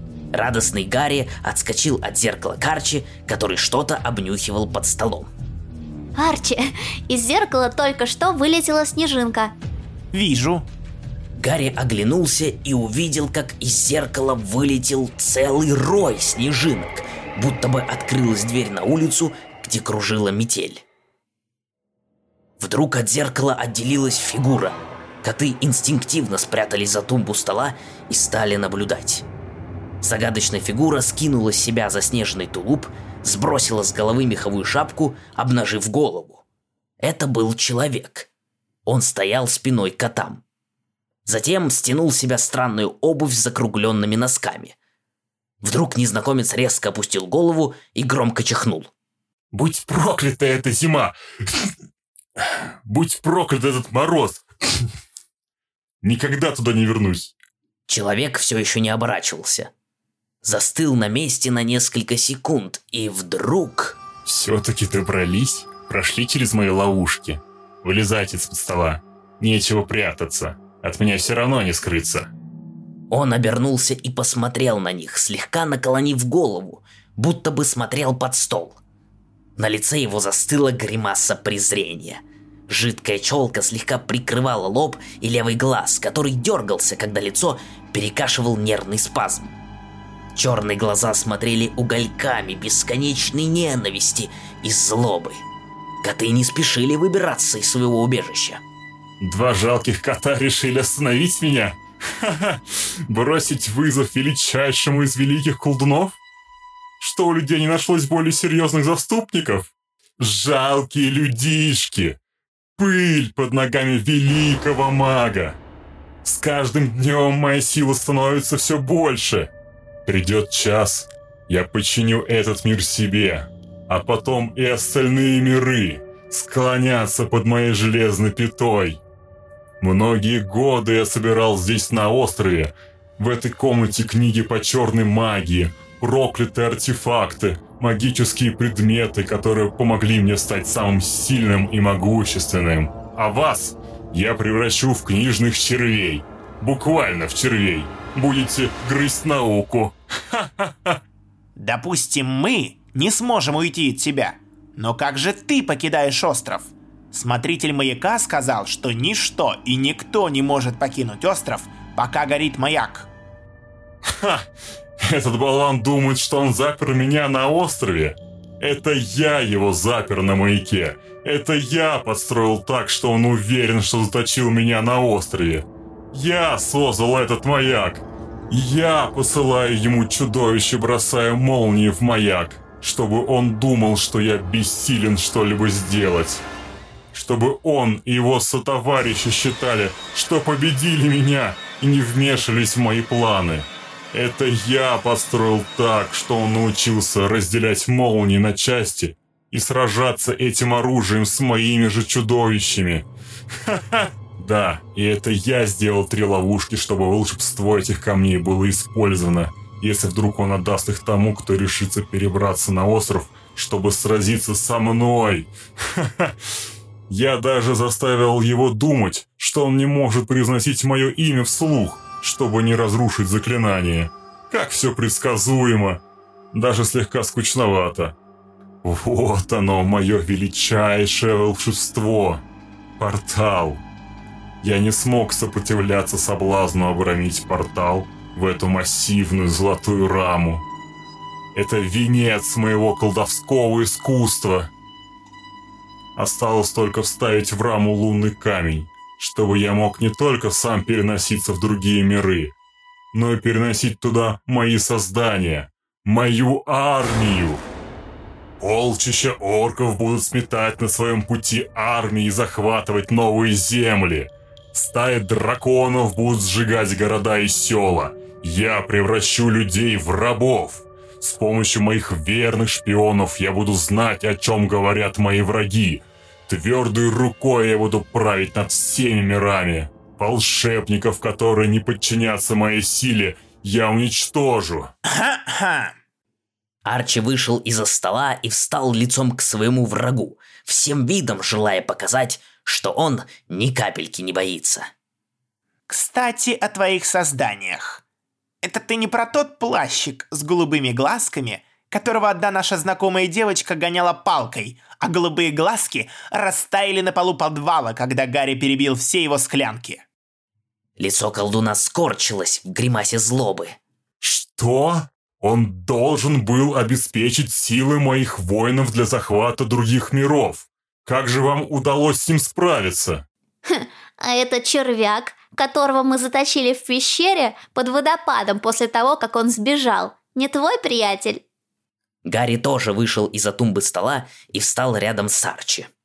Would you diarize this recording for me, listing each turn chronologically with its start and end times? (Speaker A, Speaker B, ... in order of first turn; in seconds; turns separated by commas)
Speaker A: 0.3-5.3, Speaker B: 6.2-9.5, Speaker C: 10.1-10.7, Speaker A: 11.4-20.8, Speaker A: 22.6-29.3, Speaker A: 30.0-36.4, Speaker A: 37.0-38.3, Speaker A: 38.9-40.4, Speaker A: 41.3-44.8, Speaker A: 45.6-48.9, Speaker D: 49.5-51.7, Speaker D: 52.4-54.8, Speaker D: 56.0-57.3, Speaker A: 57.9-59.7, Speaker A: 60.4-64.0, Speaker D: 64.2-72.3, Speaker A: 73.1-78.8, Speaker A: 79.6-89.5, Speaker A: 90.3-95.5, Speaker A: 96.0-98.6, Speaker D: 99.2-106.2, Speaker D: 107.0-112.2, Speaker D: 112.8-115.6, Speaker D: 116.2-119.5, Speaker D: 120.1-129.0, Speaker D: 129.8-151.0, Speaker C: 151.6-163.1, Speaker D: 164.1-164.5, Speaker D: 165.0-186.4, Speaker D: 187.1-203.1, Speaker D: 203.7-216.3, Speaker D: 217.1-226.0, Speaker D: 226.5-228.2, Speaker D: 228.8-232.4, Speaker D: 233.0-233.8, Speaker D: 234.6-240.6, Speaker D: 241.6-244.7, Speaker D: 246.2-252.5, Speaker D: 253.1-257.6, Speaker D: 258.6-284.9, Speaker C: 285.1-285.9, Speaker A: 286.9-294.9, Speaker C: 295.9-298.0, Speaker C: 298.6-310.1, Speaker A: 311.0-313.8, Speaker D: 314.2-323.2, Speaker B: 323.7-331.4, Speaker A: 332.2-335.9